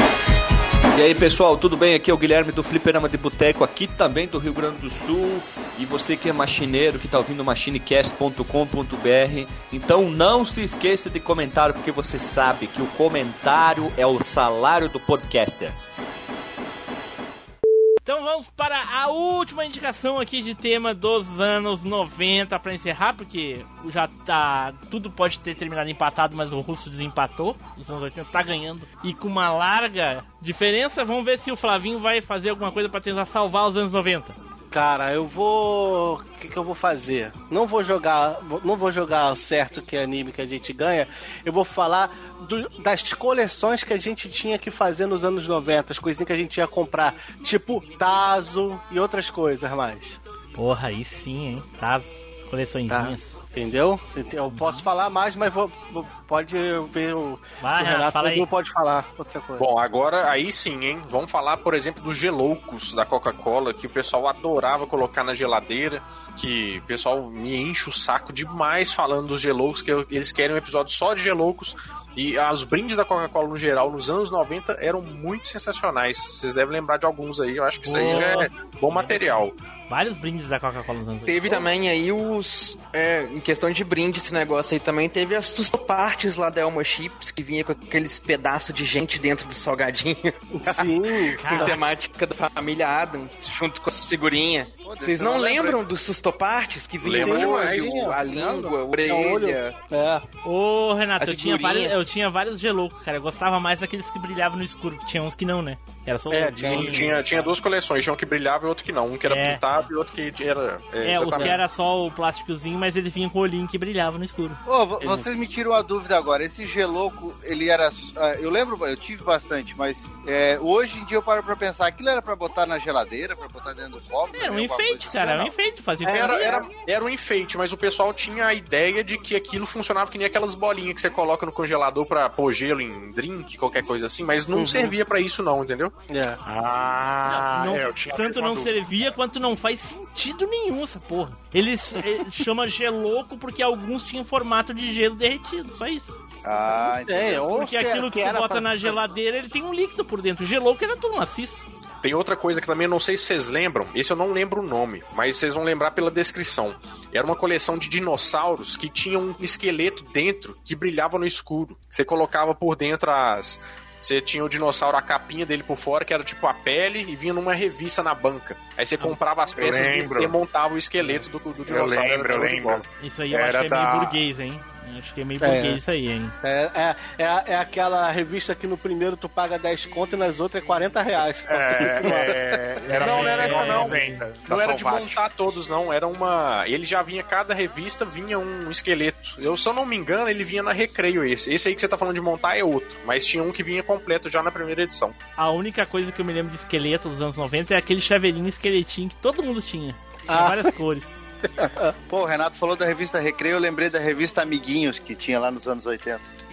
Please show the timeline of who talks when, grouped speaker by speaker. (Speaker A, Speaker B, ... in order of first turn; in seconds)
Speaker A: 0.9-15.8
Speaker B: 18.0-34.3, 50.5-53.4, 54.5-54.9, 57.6-58.5, 77.8-81.7, 91.3-91.8, 100.4-107.6, 109.3-109.9, 111.0-114.6, 124.3-126.7, 137.3-146.2, 147.5-151.7, 173.0-176.3, 182.9-184.2, 195.4-201.2
Speaker C: 34.7-50.2, 52.9-59.7, 90.5-91.8, 97.1-100.2, 106.3-107.2, 115.0-115.2, 126.0-126.5, 134.5-134.9, 136.1-136.4, 147.0-149.1, 175.4-175.8, 176.4-183.9, 200.3-200.7, 201.6-201.9
Speaker D: 59.6-79.5, 97.0-98.0, 106.6-111.6, 126.0-135.9, 152.0-172.8, 183.0-195.2
Speaker E: 81.2-90.9, 91.4-99.7, 101.2-101.9
Speaker F: 94.8-95.8, 114.7-125.5, 146.4-147.5, 202.1-206.2
Speaker G: 136.4-138.8, 169.5-170.3, 171.7-174.2, 181.5-185.2